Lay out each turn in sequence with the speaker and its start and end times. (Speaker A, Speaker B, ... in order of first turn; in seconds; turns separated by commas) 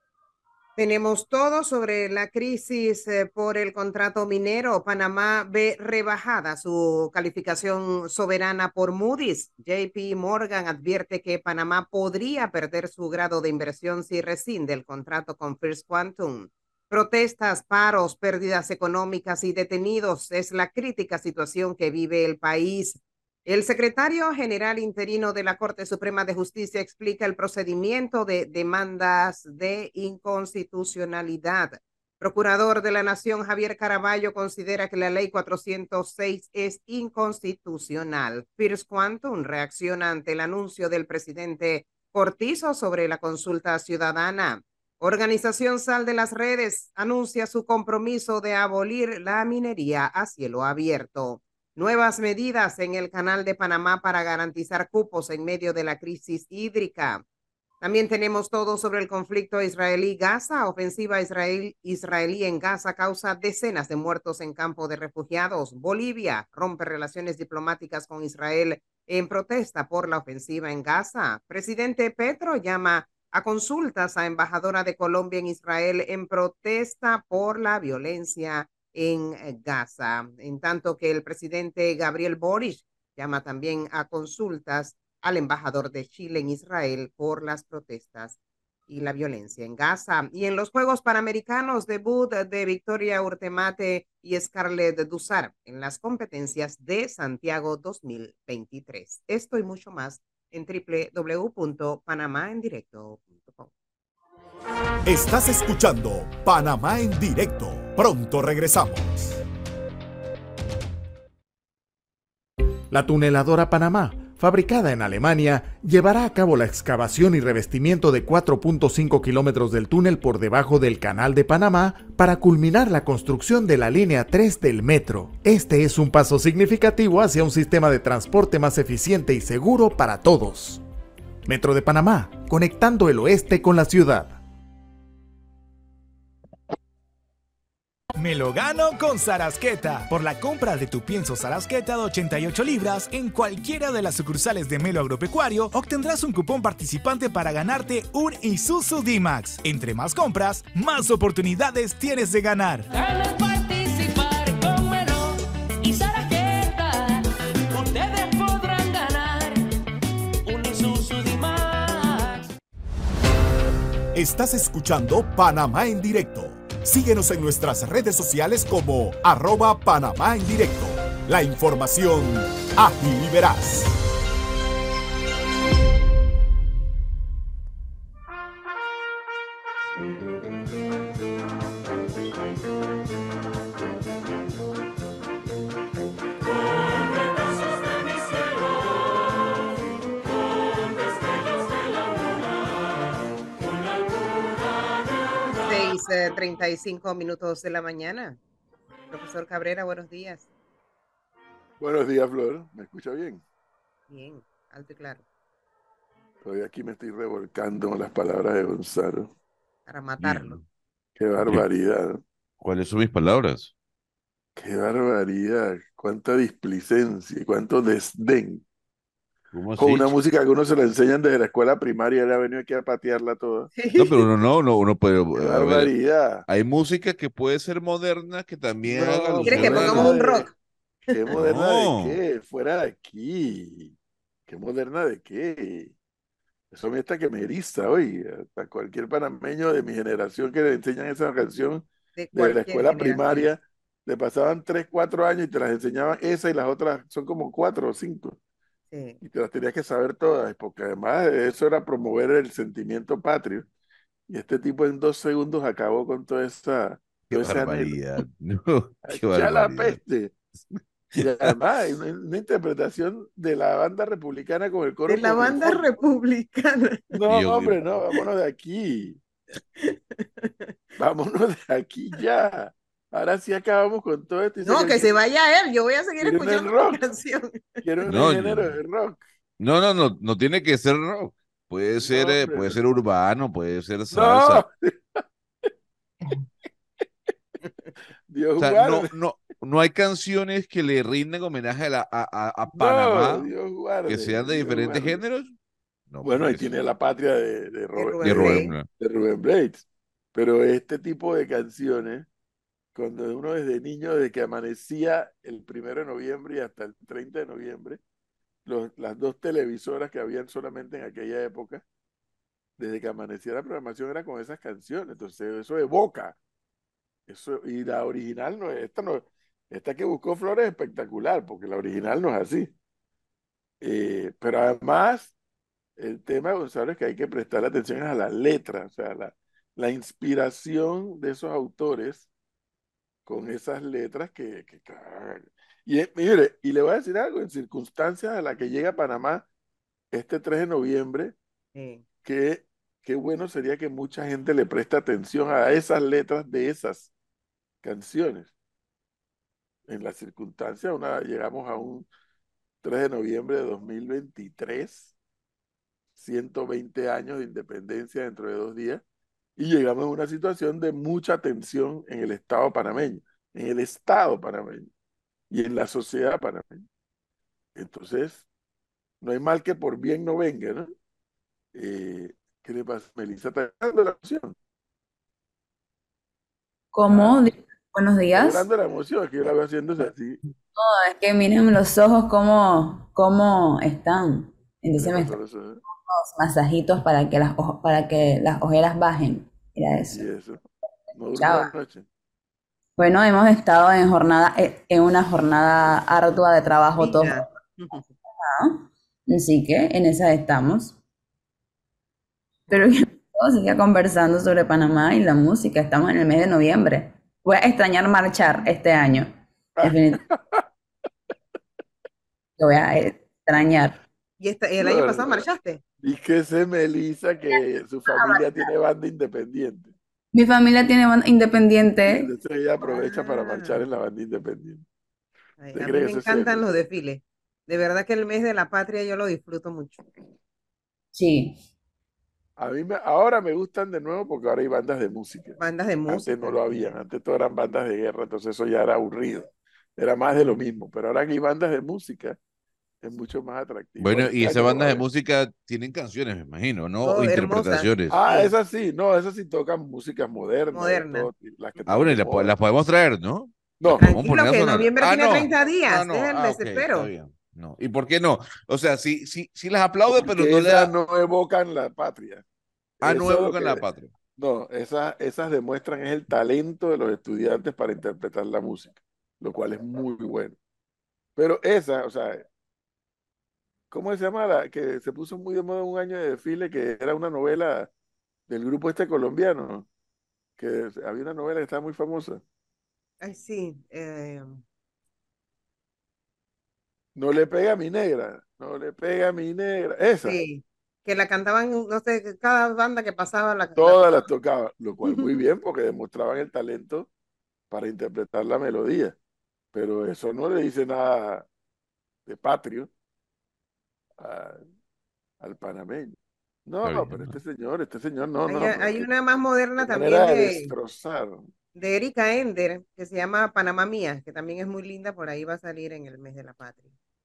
Speaker A: 0.8-57.2, Speaker A: 57.8-103.7, Speaker B: 105.1-109.4, Speaker C: 112.9-130.8, Speaker C: 131.4-134.4, Speaker D: 138.2-152.8, Speaker E: 152.9-159.6, Speaker E: 160.4-162.4, Speaker B: 164.1-173.9, Speaker A: 195.5-198.4, Speaker A: 199.1-200.5, Speaker F: 201.8-203.4, Speaker A: 204.1-205.2, Speaker F: 206.4-209.3, Speaker A: 209.8-210.6, Speaker G: 210.2-210.6, Speaker F: 211.2-212.2, Speaker G: 212.6-213.7, Speaker F: 214.6-218.6, Speaker G: 219.5-220.1, Speaker F: 219.8-223.7, Speaker A: 223.7-224.3, Speaker G: 223.9-225.9, Speaker F: 225.3-226.4, Speaker G: 226.5-230.2, Speaker F: 228.8-230.5, Speaker A: 229.4-230.5, Speaker A: 231.1-231.4, Speaker F: 231.1-233.9, Speaker G: 231.3-232.2, Speaker F: 234.5-235.9, Speaker F: 236.7-248.4, Speaker A: 242.2-243.5, Speaker A: 248.9-249.2, Speaker F: 249.2-253.7, Speaker F: 254.3-258.0, Speaker G: 257.3-260.0, Speaker F: 259.1-260.3, Speaker G: 260.8-261.6, Speaker F: 261.2-265.8, Speaker A: 265.1-267.2, Speaker F: 267.1-269.2, Speaker G: 267.3-267.8, Speaker A: 269.8-270.7, Speaker F: 271.0-275.2, Speaker A: 274.6-277.8, Speaker F: 276.2-277.0, Speaker F: 277.8-279.2, Speaker G: 278.1-278.8, Speaker G: 279.6-284.6, Speaker F: 282.0-282.8, Speaker F: 284.1-285.2, Speaker F: 288.3-289.1, Speaker G: 288.6-293.5, Speaker F: 292.7-295.2, Speaker G: 294.1-295.5, Speaker G: 296.1-296.7, Speaker F: 296.2-302.3, Speaker A: 297.9-298.7, Speaker G: 298.2-298.9, Speaker F: 302.9-308.0, Speaker F: 308.6-311.8, Speaker F: 312.8-316.4, Speaker F: 317.3-322.7, Speaker F: 323.8-325.3, Speaker F: 326.0-332.3, Speaker F: 333.2-339.5, Speaker F: 340.1-341.4, Speaker A: 341.8-342.0, Speaker F: 342.2-347.1, Speaker F: 347.8-348.5, Speaker F: 349.9-352.1, Speaker F: 352.8-355.1, Speaker F: 356.2-359.0, Speaker F: 359.6-364.9, Speaker F: 365.5-366.8, Speaker F: 367.8-368.5, Speaker F: 369.2-370.9, Speaker F: 371.7-374.6, Speaker H: 376.9-378.7, Speaker F: 377.1-377.5, Speaker F: 378.3-380.4, Speaker H: 380.8-385.4, Speaker F: 385.0-385.8, Speaker H: 385.9-390.2, Speaker F: 390.1-390.6, Speaker F: 391.1-392.1, Speaker H: 391.4-391.7, Speaker H: 393.0-397.5, Speaker A: 397.0-398.1, Speaker H: 398.4-401.0, Speaker H: 402.7-410.2, Speaker F: 409.8-410.6, Speaker H: 412.6-414.0, Speaker A: 414.4-415.8, Speaker F: 414.8-415.5, Speaker F: 416.0-419.9, Speaker H: 420.3-422.3, Speaker F: 422.1-424.9, Speaker A: 422.8-423.9, Speaker A: 425.6-430.0, Speaker F: 425.7-426.8, Speaker H: 431.1-431.6, Speaker F: 432.6-442.4, Speaker A: 435.6-436.9, Speaker F: 443.0-445.0, Speaker G: 444.0-448.2, Speaker A: 447.0-448.6, Speaker F: 448.1-452.5, Speaker A: 450.7-451.3, Speaker G: 451.9-460.9, Speaker A: 454.0-457.1, Speaker F: 460.1-462.4, Speaker F: 463.0-463.8, Speaker G: 463.0-464.1, Speaker F: 464.4-470.6, Speaker F: 471.4-472.4, Speaker F: 473.9-477.9, Speaker F: 478.5-479.9, Speaker F: 480.6-482.4, Speaker A: 483.2-484.6, Speaker F: 487.1-490.4, Speaker A: 490.2-494.3, Speaker F: 493.8-497.1, Speaker A: 495.0-495.4, Speaker F: 497.7-499.2, Speaker F: 499.7-501.5, Speaker F: 502.3-502.9, Speaker F: 504.2-504.6, Speaker F: 505.4-506.1, Speaker F: 506.7-509.1, Speaker G: 506.8-507.3, Speaker A: 508.4-510.7, Speaker F: 509.8-511.5, Speaker A: 511.8-516.9